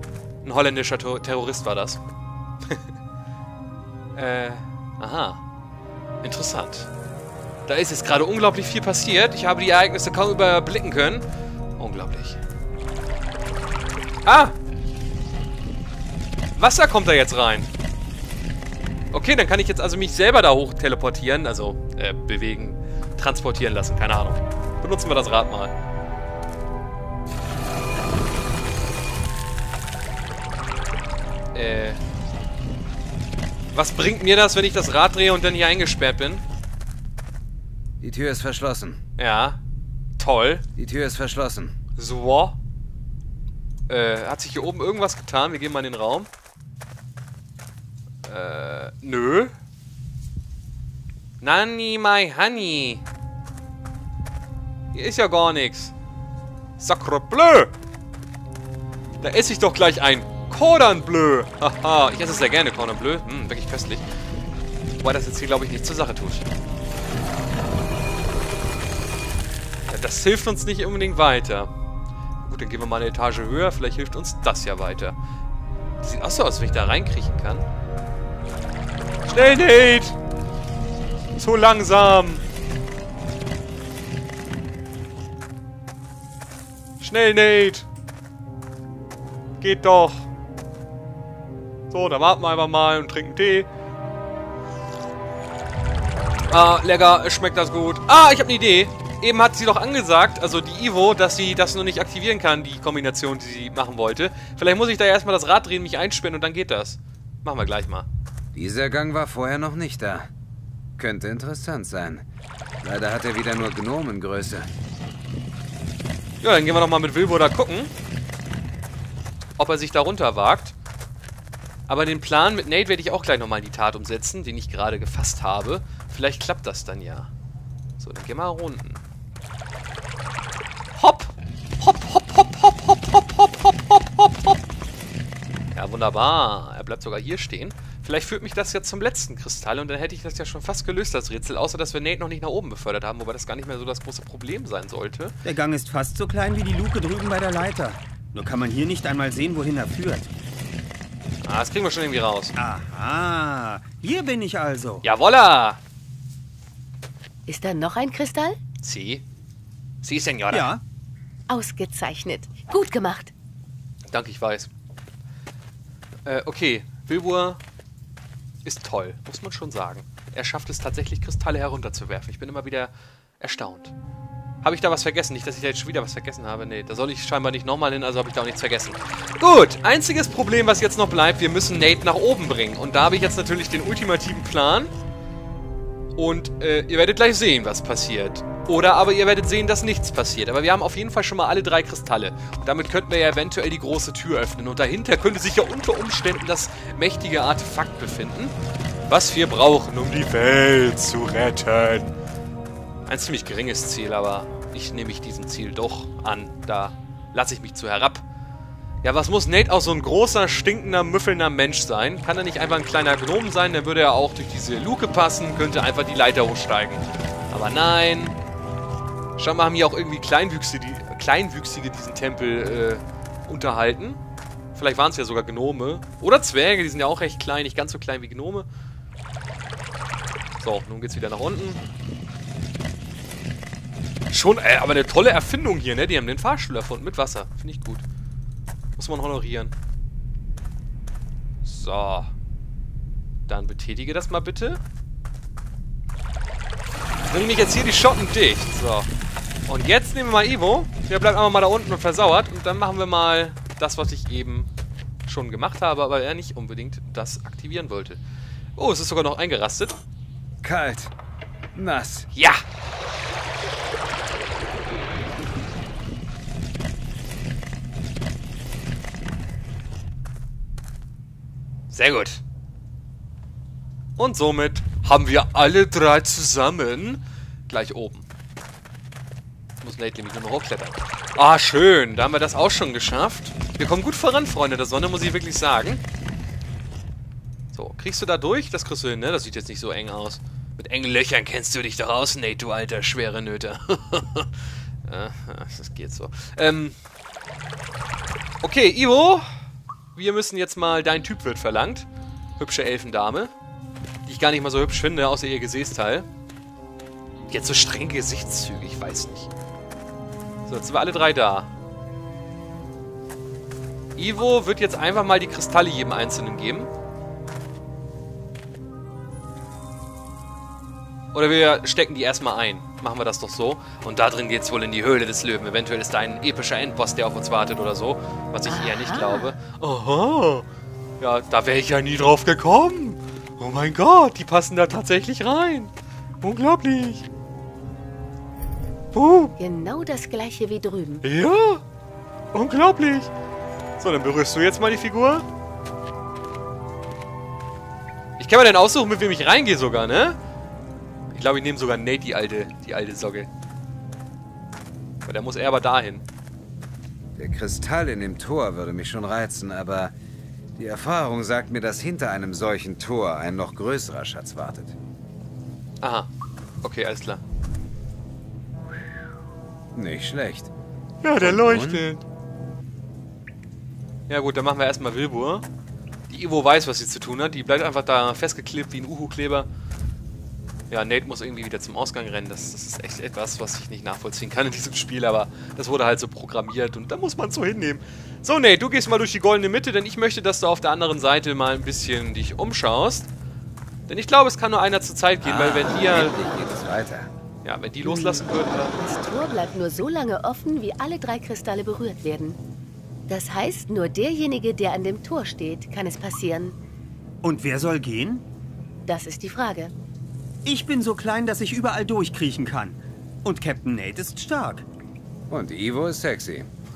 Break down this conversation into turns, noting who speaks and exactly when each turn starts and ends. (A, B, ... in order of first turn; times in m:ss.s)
0:00.4-0:02.0 A
0:04.2-0:05.4 A
0:06.2-0:06.9 A
0:07.7-0:11.3 A
0:11.8-0:12.4 A
0:14.2-0:14.5 A
0:16.6-0:17.7 A
0:19.1-0:25.7 A
0:31.5-0:32.0 A
0:33.7-0:36.4 A
0:38.0-0:39.0 B
0:39.2-0:39.6 A
0:40.2-0:40.6 A
0:40.8-0:41.7 B
0:42.0-0:42.6 A
0:43.9-0:46.3 A
0:48.2-0:49.5 A
0:51.4-0:53.0 A
0:54.9-0:55.9 A
0:56.8-0:57.7 A
0:59.2-1:04.0 A
1:05.0-1:06.5 A
1:09.9-1:11.7 A
1:12.4-1:15.2 A
1:16.0-1:17.7 A
1:19.2-1:20.2 A
1:21.4-1:22.4 A
1:27.0-1:27.9 A
1:29.6-1:30.3 A
1:31.9-1:33.7 A
1:36.5-1:48.1 A
1:48.6-1:50.3 B
1:51.0-1:52.2 B
1:52.8-1:54.7 B
1:56.4-1:57.9 A
1:59.6-2:00.8 A
2:01.9-2:07.3 A
2:08.0-2:09.0 A
2:10.9-2:14.6 A
2:15.8-2:25.3 A
2:25.4-2:30.3 C
2:31.4-2:32.5 A
2:32.6-2:35.0 C
2:35.0-2:35.8 A
2:37.5-2:38.6 D
2:38.8-2:39.2 A
2:40.0-2:40.7 A
2:40.5-2:40.8 C
2:41.5-2:43.3 D
2:44.1-2:44.7 A
2:46.3-2:47.6 A
2:48.6-2:53.9 A
2:54.6-3:04.9 A
3:06.2-3:18.6 A
3:19.1-3:22.2 A
3:23.1-3:28.2 A
3:29.0-3:38.4 A
3:39.4-3:44.2 A
3:44.7-3:48.7 A
3:50.6-3:51.8 A
3:54.3-3:58.0 A
3:59.0-3:59.7 A
4:01.6-4:02.3 A
4:03.5-4:04.8 A
4:07.3-4:09.1 A
4:09.7-4:14.7 A
4:15.3-4:18.2 A
4:18.8-4:20.0 A
4:20.6-4:21.1 B
4:21.8-4:22.3 B
4:22.3-4:22.6 A
4:31.9-4:32.4 A
4:34.2-4:38.3 A
4:39.8-4:46.0 A
4:47.7-4:57.0 A
4:58.6-4:59.6 A
5:00.2-5:02.1 A
5:02.6-5:03.5 A
5:04.3-5:06.3 A
5:07.5-5:09.5 A
5:10.7-5:11.7 A
5:14.2-5:16.9 A
5:21.3-5:30.7 A
5:28.7-5:29.6 D
5:31.2-5:37.3 A
5:39.1-5:39.5 A
5:39.6-5:41.2 D
5:41.2-5:41.8 A
5:42.5-5:43.3 A
5:44.0-5:45.5 A
5:48.4-5:50.4 A
5:51.3-5:53.5 A
5:55.2-5:56.2 A
5:57.4-6:00.1 B
6:00.8-6:04.9 B
6:06.0-6:06.3 A
6:06.8-6:07.4 A
6:09.9-6:10.7 B
6:11.2-6:12.2 A
6:11.4-6:12.0 B
6:14.3-6:15.7 A
6:16.3-6:19.7 A
6:20.9-6:33.3 A
6:34.1-6:36.4 A
6:35.4-6:37.3 B
6:37.6-6:39.0 A
6:38.0-6:38.4 D
6:39.0-6:42.6 D
6:43.3-6:46.8 D
6:47.4-6:48.4 C
6:49.1-6:49.9 D
6:50.6-6:54.8 C
6:55.5-6:56.7 B